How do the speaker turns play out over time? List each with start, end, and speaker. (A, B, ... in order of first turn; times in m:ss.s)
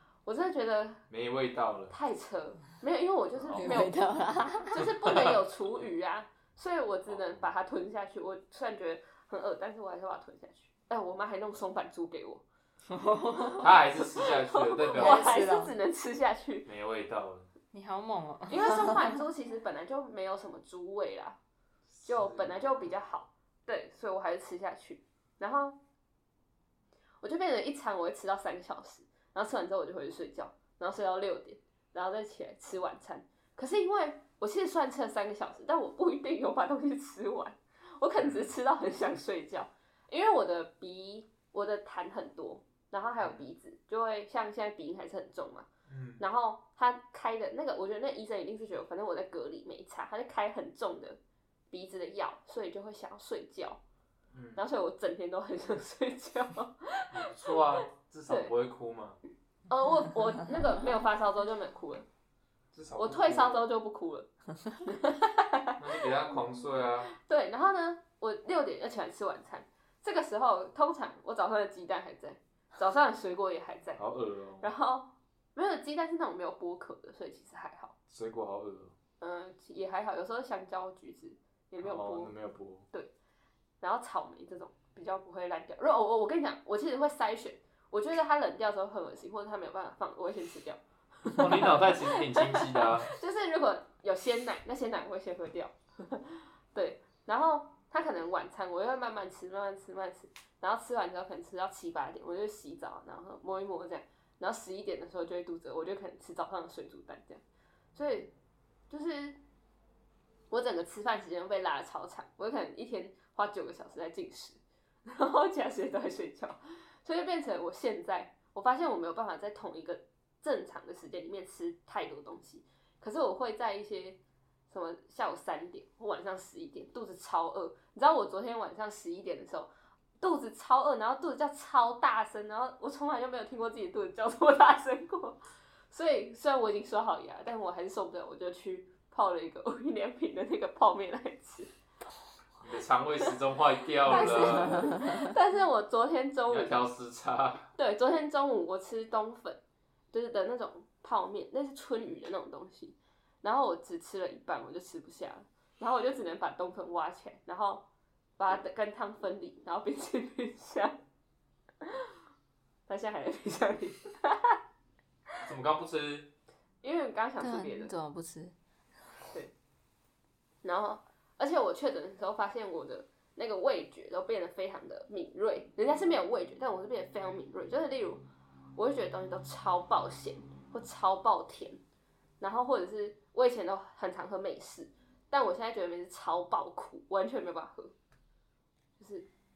0:00.2-0:01.0 A
0:01.1-0:01.9 B
0:01.9-0:04.0 A
0:03.3-0:03.8 B
0:03.5-0:04.8 C
0:04.6-0:12.4 A
0:04.8-0:05.4 B
0:07.1-0:07.5 B
0:12.9-0:13.6 C
0:13.6-0:15.5 B
0:14.2-0:16.7 A
0:14.9-0:15.7 C
0:16.6-0:17.5 B
0:17.7-0:19.2 C
0:18.5-0:21.4 A
0:21.9-0:22.9 B
0:22.0-0:25.8 A
0:27.2-0:45.7 A
0:38.2-0:38.5 B
0:45.9-0:46.2 B
0:46.2-0:51.2 A
0:51.7-0:53.8 A
0:54.3-0:54.6 B
0:54.6-0:58.5 A
0:57.1-0:59.2 B
0:59.7-1:02.0 A
1:02.7-1:03.6 B
1:03.0-1:04.3 A
1:04.8-1:06.0 A
1:05.8-1:07.1 B
1:07.1-1:14.0 A
1:14.0-1:14.7 B
1:14.6-1:17.9 A
1:18.1-1:18.9 B
1:19.2-1:22.3 A
1:21.8-1:22.8 B
1:23.8-1:47.4 A
1:31.2-1:33.1 B
1:47.9-1:48.3 A
1:48.9-1:49.4 A
1:50.5-2:15.4 A
2:15.9-2:21.7 A
2:22.6-2:25.0 B
2:24.0-2:26.8 A
2:24.6-2:25.3 C
2:26.5-2:27.7 B
2:27.8-2:29.6 A
2:30.1-2:37.8 A
2:38.4-2:41.0 A
2:42.9-2:44.6 A
2:45.4-2:46.3 B
2:46.8-2:47.9 A
2:47.4-2:48.5 C
2:50.6-2:58.2 A
2:58.8-3:01.8 A
3:02.4-3:07.9 A
3:09.0-3:09.3 A